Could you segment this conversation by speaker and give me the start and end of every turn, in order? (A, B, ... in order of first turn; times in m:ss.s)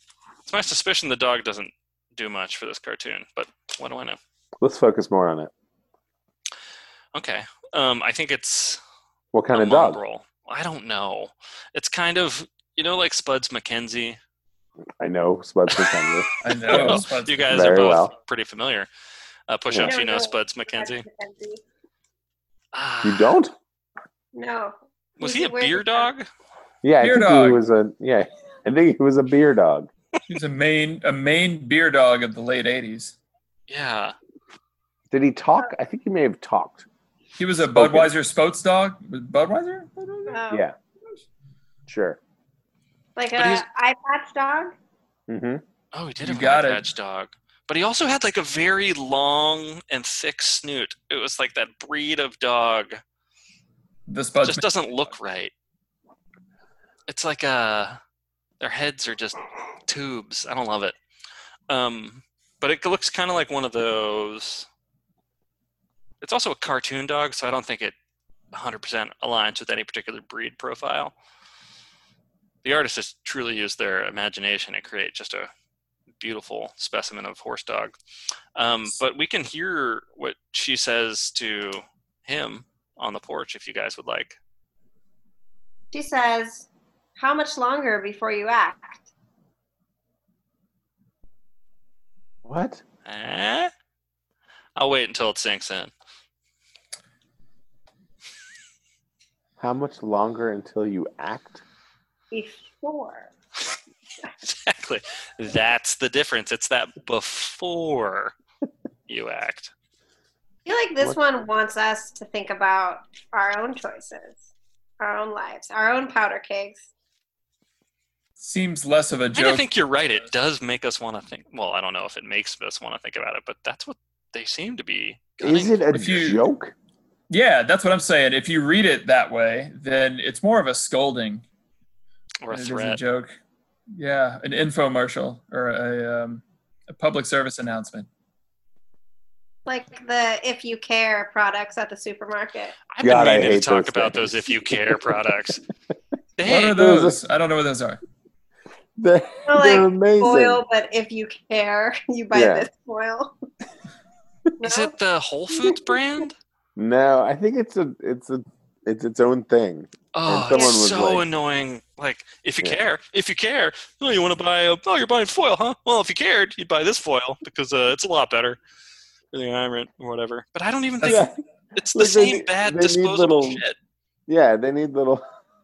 0:00.4-0:04.2 A
0:04.6-0:05.5 B
0:07.1-0:08.8 A
0:09.3-0:10.0 B
0:09.5-0:14.2 A
0:15.0-0:18.1 B
0:15.7-0:18.9 A
0:16.4-0:17.9 C
0:19.5-0:21.0 A
0:19.8-0:21.6 D
0:22.7-0:23.4 A
0:23.0-0:23.5 B
0:24.3-0:26.1 D
0:25.2-0:26.3 A
0:26.8-0:29.9 B
0:27.0-0:27.6 C
0:30.3-0:33.1 C
0:33.7-0:34.1 A
0:35.1-0:36.8 B
0:37.4-0:40.4 C
0:37.6-0:38.1 B
0:40.3-0:40.6 D
0:40.5-0:40.7 B
0:41.9-0:42.2 B
0:43.2-0:44.7 D
0:43.4-0:43.6 A
0:45.3-0:45.6 B
0:45.9-0:53.0 A
0:46.2-0:46.9 C
0:54.1-0:54.7 C
0:54.4-0:55.5 A
0:57.1-0:58.0 A
0:58.6-1:01.0 A
1:01.7-1:04.7 A
1:06.2-1:07.9 A
1:08.5-1:11.1 A
1:12.6-1:15.5 A
1:16.2-1:18.0 A
1:18.6-1:24.4 A
1:25.9-1:29.0 D
1:32.4-1:32.8 B
1:33.0-1:33.7 A
1:34.8-1:35.9 A
1:39.6-1:41.6 B
1:42.3-1:43.3 D
1:44.4-1:48.3 A
1:49.1-1:49.7 A
1:50.6-1:54.4 D
1:55.0-1:56.8 D
1:58.4-2:00.2 C
1:59.3-2:05.8 A
2:05.4-2:06.7 B
2:05.9-2:06.4 C
2:07.3-2:11.4 C
2:12.4-2:13.0 A
2:12.5-2:13.3 C
2:13.9-2:18.1 C
2:19.6-2:22.8 D
2:22.9-2:25.6 A
2:23.0-2:25.4 B
2:26.4-2:26.9 A
2:26.4-2:28.0 C
2:26.7-2:27.2 B
2:29.0-2:30.6 B
2:29.4-2:33.4 D
2:32.3-2:32.7 B
2:34.6-2:34.9 D
2:34.6-2:36.4 A
2:36.8-2:41.2 B
2:40.1-2:48.6 A
2:40.5-2:40.8 D
2:49.3-2:53.8 A
2:51.0-2:51.3 C
2:51.0-2:51.3 B
2:51.9-2:53.6 B
2:54.3-2:55.2 B